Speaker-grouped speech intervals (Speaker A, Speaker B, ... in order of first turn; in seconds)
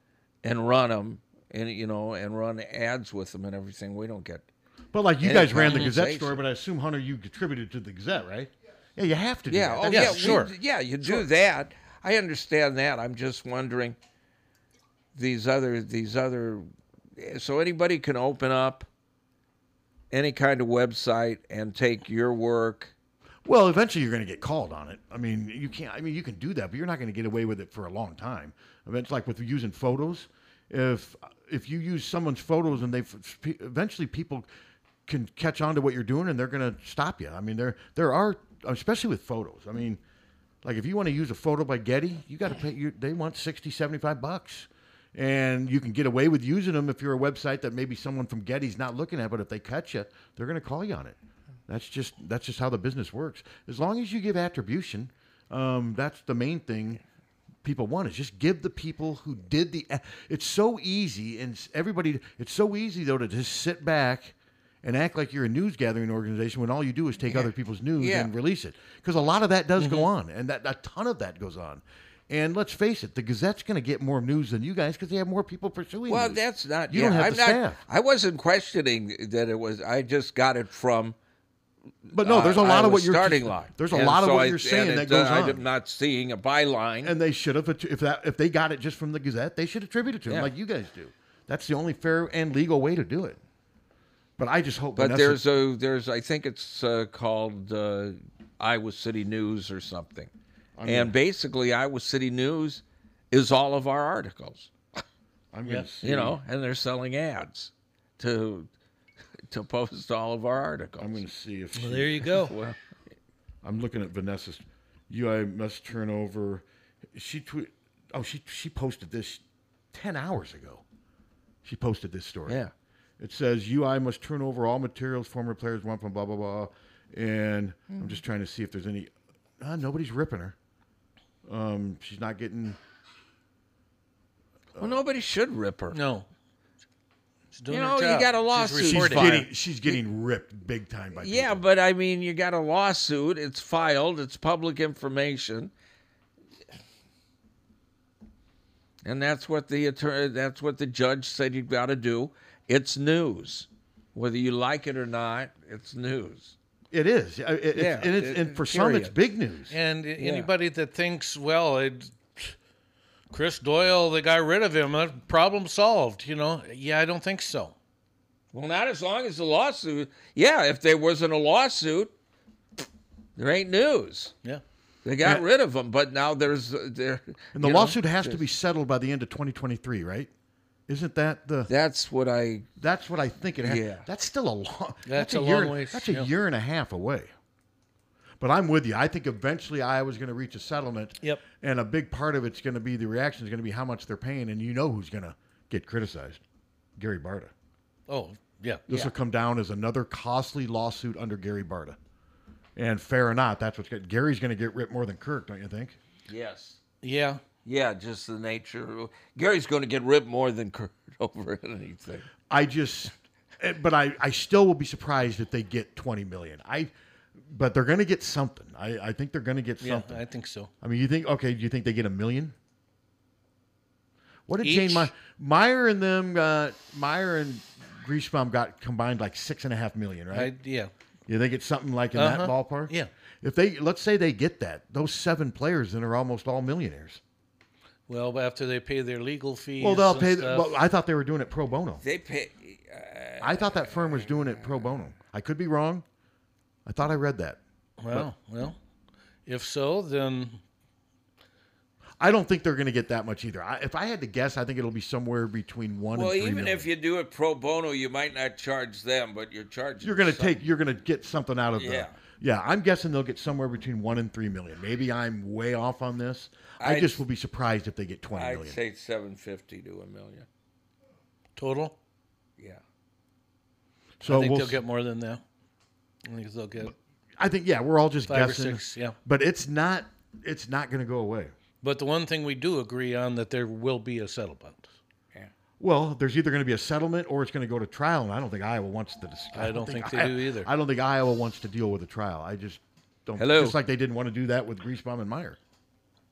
Speaker A: 0.4-4.5, 5.2-6.4, 9.5-14.0, 15.2-18.9, 20.1-22.9, 68.0-68.3, 76.1-81.2, 82.1-87.1, 95.0-100.3, 100.8-104.7, 106.0-108.7, 109.5-111.2, 112.4-112.8, 122.5-122.7, 127.9-128.2, 134.8-136.0, 137.7-139.4, 141.2-145.7, 149.0-156.6, 157.8-159.1, 160.2-160.5, 168.5-172.1, 173.4-174.3, 175.0-178.4, 181.7-182.7, 183.6-184.1, 206.3-206.8, 207.6-212.3, 242.0-244.8, 256.1-260.6, 261.8-262.2, 266.8-267.2, 268.4-270.5, 293.4-293.8
Speaker B: 4.9-10.5, 23.5-34.5, 35.1-40.0, 40.6-51.2, 51.7-57.0, 57.6-77.8, 82.1-85.7, 87.0-93.4, 94.4-95.4, 100.8-101.1, 105.5-106.4, 111.0-112.3, 113.6-119.4, 119.9-120.8, 121.6-122.6, 123.2-130.6, 131.5-132.8, 134.8-135.0, 138.8-141.6, 156.9-159.8, 177.6-180.3, 180.9-181.7, 182.8-187.3, 188.4-196.4, 197.0-197.5, 198.9-202.0, 202.8-206.0, 212.5-216.9, 217.5-220.2, 220.8-222.6, 224.5-230.5, 231.3-237.2, 239.8-242.0, 243.4-246.1, 246.9-247.6, 252.2-256.9, 260.0-268.8, 274.2-274.8, 277.4-281.5, 285.8-295.6
Speaker C: 9.9-10.5, 69.8-70.1, 111.8-112.5, 135.9-136.3, 137.5-139.5, 159.7-162.6, 163.3-167.8, 185.1-186.3, 198.1-199.1, 207.0-207.4, 219.8-220.7, 224.6-225.1, 230.3-230.9, 232.2-233.1, 238.1-240.7, 248.0-248.8, 249.5-250.6, 271.6-272.0, 274.2-275.4, 276.2-276.9, 278.3-279.2, 281.8-284.9, 289.6-290.7